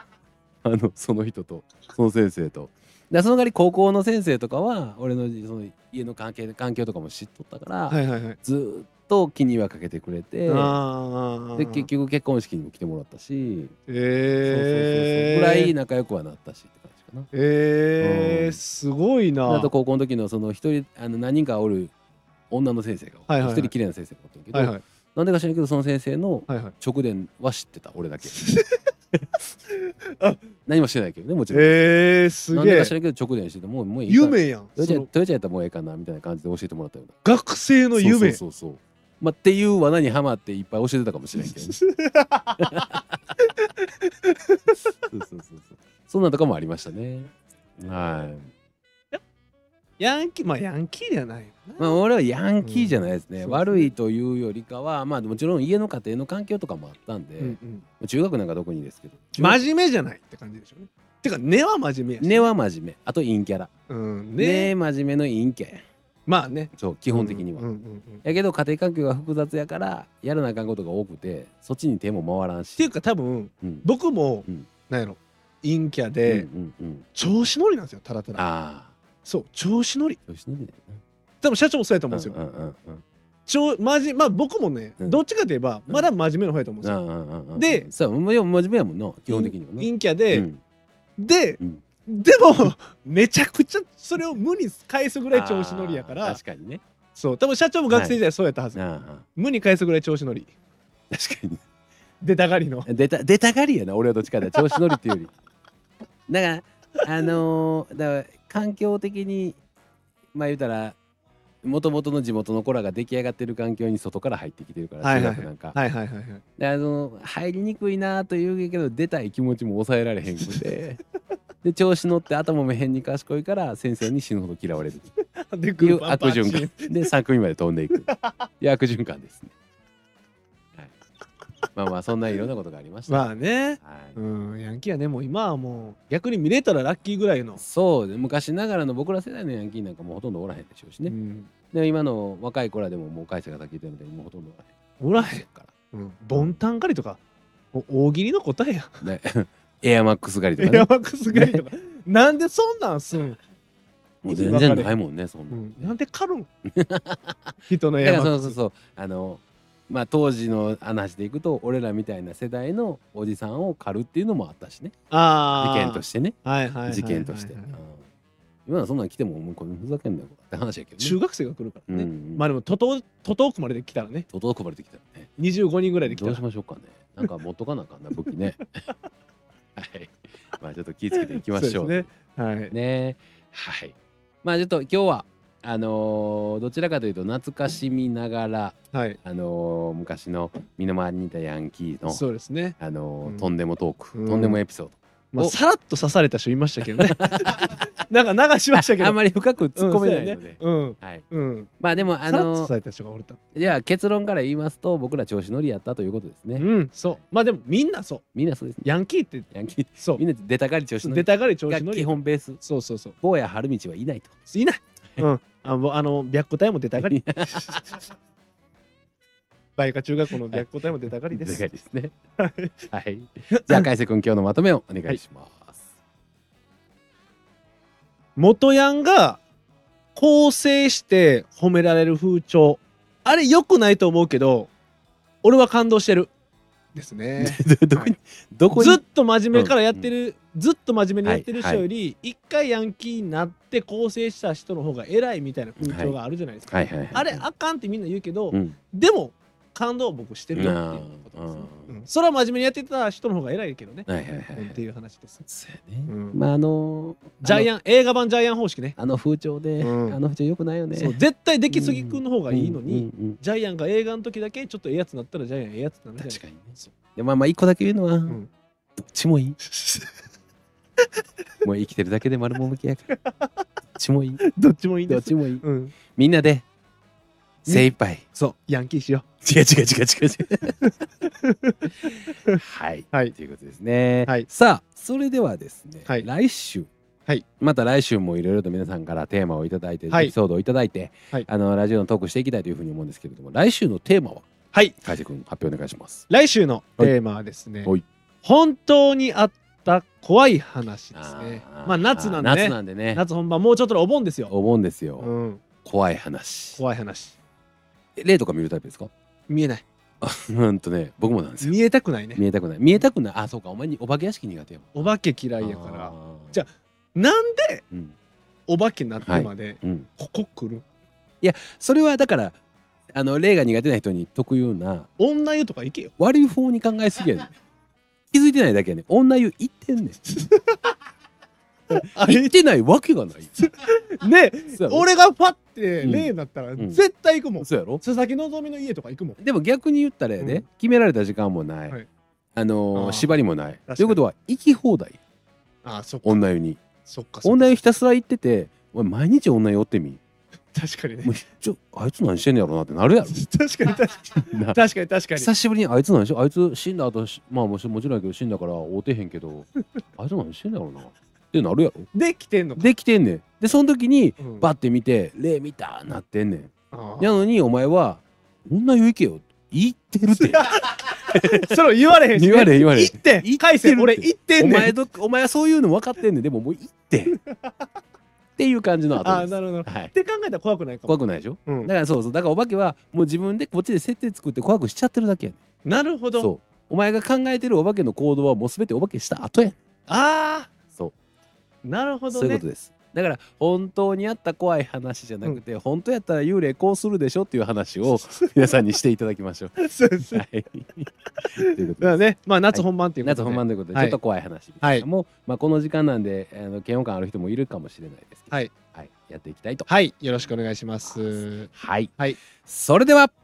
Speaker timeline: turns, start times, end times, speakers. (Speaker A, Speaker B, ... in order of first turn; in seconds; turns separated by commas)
Speaker A: 0.6-10.8, Speaker B: 7.9-8.4, Speaker B: 10.5-11.9, Speaker A: 11.6-13.7, Speaker B: 13.9-15.7, Speaker A: 14.4-17.3, Speaker B: 17.3-19.7, Speaker A: 18.0-18.6, Speaker A: 19.5-21.9, Speaker A: 22.5-28.4, Speaker B: 23.3-23.7, Speaker B: 24.5-24.8, Speaker B: 26.5-26.7, Speaker B: 28.3-28.9, Speaker B: 29.7-30.4, Speaker A: 30.6-31.8, Speaker B: 31.5-32.9, Speaker A: 32.5-37.2, Speaker B: 34.1-35.1, Speaker B: 37.2-38.4, Speaker A: 38.0-41.8, Speaker B: 41.4-42.9, Speaker A: 42.6-43.2, Speaker B: 43.4-44.7, Speaker A: 45.0-48.5, Speaker B: 50.0-52.0, Speaker A: 51.8-59.6, Speaker B: 52.6-53.9, Speaker B: 57.4-57.9, Speaker B: 59.3-62.5, Speaker A: 62.2-63.7, Speaker B: 63.9-64.7, Speaker A: 64.4-65.8, Speaker B: 66.3-68.2, Speaker A: 66.7-67.6, Speaker A: 68.2-72.9, Speaker B: 72.8-76.5, Speaker A: 76.3-77.1, Speaker B: 77.1-78.4, Speaker A: 78.3-78.9, Speaker B: 79.2-80.2, Speaker A: 80.3-81.0, Speaker B: 81.4-82.3, Speaker A: 82.1-83.0, Speaker B: 83.5-87.0, Speaker A: 86.8-90.6, Speaker B: 87.5-87.9, Speaker B: 89.3-90.5, Speaker B: 91.2-96.4, Speaker A: 95.3-96.8, Speaker B: 97.2-98.8, Speaker A: 97.9-98.2, Speaker A: 98.7-99.2, Speaker B: 99.3-100.5, Speaker A: 101.1-101.6, Speaker B: 102.2-102.9, Speaker A: 102.8-105.3, Speaker A: 106.3-109.6, Speaker A: 110.3-111.0, Speaker A: 111.6-115.8, Speaker B: 115.0-116.4, Speaker A: 116.6-121.0, Speaker A: 121.6-125.0, Speaker B: 125.4-127.1, Speaker A: 125.8-129.5, Speaker B: 128.1-128.5, Speaker A: 131.7-134.2, Speaker B: 133.1-137.6, Speaker A: 137.6-141.1, Speaker B: 141.1-141.5, Speaker A: 141.7-145.7, Speaker B: 145.0-147.2, Speaker B: 147.7-149.0, Speaker A: 149.0-151.6, Speaker B: 150.6-153.4, Speaker B: 154.2-154.9, Speaker A: 154.2-155.9, Speaker B: 155.5-156.5, Speaker A: 156.6-164.9, Speaker B: 157.7-158.6, Speaker B: 165.1-167.8, Speaker A: 165.6-166.3, Speaker A: 166.9-168.0, Speaker A: 168.7-171.2, Speaker B: 171.0-174.3, Speaker A: 171.9-172.4, Speaker A: 174.3-175.3, Speaker B: 175.4-176.4, Speaker A: 176.1-178.6, Speaker A: 179.8-182.1, Speaker B: 181.1-182.7, Speaker A: 182.7-192.2, Speaker B: 188.9-189.2, Speaker B: 192.1-193.5, Speaker A: 192.8-195.5, Speaker B: 194.1-194.6, Speaker B: 195.3-199.2, Speaker A: 197.0-197.8, Speaker A: 198.7-201.2, Speaker B: 199.7-203.4, Speaker A: 201.8-202.7, Speaker A: 203.5-206.7, Speaker B: 206.6-208.2, Speaker A: 208.3-208.8, Speaker B: 208.8-209.5, Speaker A: 209.5-212.6, Speaker B: 211.0-213.2, Speaker A: 213.2-214.3, Speaker B: 214.5-217.8, Speaker A: 217.0-218.0, Speaker B: 219.8-221.6, Speaker A: 221.3-222.1, Speaker B: 222.4-222.8, Speaker A: 222.9-225.8, Speaker B: 223.5-223.9, Speaker B: 228.4-229.4, Speaker B: 230.2-234.7, Speaker B: 235.4-236.3, Speaker B: 236.9-238.1, Speaker A: 237.4-239.0, Speaker B: 238.7-255.5, Speaker A: 239.5-240.1, Speaker A: 241.2-241.8, Speaker A: 245.8-247.4, Speaker A: 248.5-248.8, Speaker A: 250.5-251.9, Speaker A: 254.1-254.8, Speaker A: 255.5-257.7, Speaker B: 256.1-256.4, Speaker B: 257.4-259.0, Speaker A: 259.0-263.4, Speaker B: 259.8-260.2, Speaker B: 260.9-266.9, Speaker A: 266.2-268.4, Speaker A: 269.0-269.6, Speaker B: 269.6-270.1, Speaker A: 271.6-273.1, Speaker B: 273.2-273.5, Speaker A: 273.9-274.4, Speaker B: 274.4-275.9, Speaker A: 275.1-276.6, Speaker A: 277.7-278.2, Speaker B: 277.7-279.2, Speaker A: 279.4-280.8, Speaker B: 280.8-282.6, Speaker A: 282.5-286.9, Speaker A: 287.6-294.4, Speaker A: 295.0-296.3, Speaker B: 296.3-297.9, Speaker B: 298.4-304.5, Speaker A: 301.1-303.2, Speaker A: 304.5-305.3, Speaker B: 305.2-305.6, Speaker A: 305.8-306.8, Speaker B: 306.8-307.3, Speaker A: 308.1-309.1, Speaker B: 309.5-309.8, Speaker A: 310.2-311.8, Speaker B: 311.6-312.4, Speaker A: 312.3-316.6, Speaker B: 314.9-317.8, Speaker B: 318.7-320.8, Speaker A: 319.2-320.1, Speaker A: 321.4-322.6, Speaker A: 323.1-325.1, Speaker B: 325.2-326.1, Speaker A: 326.2-327.5, Speaker A: 328.3-330.2, Speaker B: 330.3-330.8, Speaker B: 331.9-332.5, Speaker A: 332.1-333.7, Speaker B: 333.6-339.4, Speaker A: 334.7-335.1, Speaker A: 336.0-337.0, Speaker A: 337.6-338.0, Speaker A: 339.4-341.9, Speaker B: 340.4-340.6, Speaker A: 342.5-345.2, Speaker B: 342.9-343.3, Speaker B: 343.9-344.2, Speaker B: 345.8-346.4, Speaker A: 346.2-346.8, Speaker B: 347.1-347.8, Speaker A: 347.4-350.2, Speaker B: 350.7-351.3, Speaker A: 351.2-353.4, Speaker B: 353.3-355.5, Speaker A: 354.4-354.8, Speaker A: 355.4-362.1, Speaker B: 362.1-362.9, Speaker A: 362.8-371.7, Speaker B: 364.4-364.7, Speaker B: 366.9-367.4, Speaker B: 370.4-374.9, Speaker A: 372.3-377.4, Speaker B: 377.3-377.7, Speaker A: 378.6-380.1, Speaker B: 379.2-381.9, Speaker A: 381.1-385.6, Speaker B: 385.8-386.5, Speaker A: 386.4-389.8, Speaker B: 390.1-390.7, Speaker B: 391.8-392.6, Speaker A: 392.3-402.2, Speaker B: 399.8-400.4, Speaker B: 401.4-404.2, Speaker A: 402.7-409.9, Speaker B: 404.8-405.1, Speaker B: 409.9-412.4, Speaker A: 411.1-413.3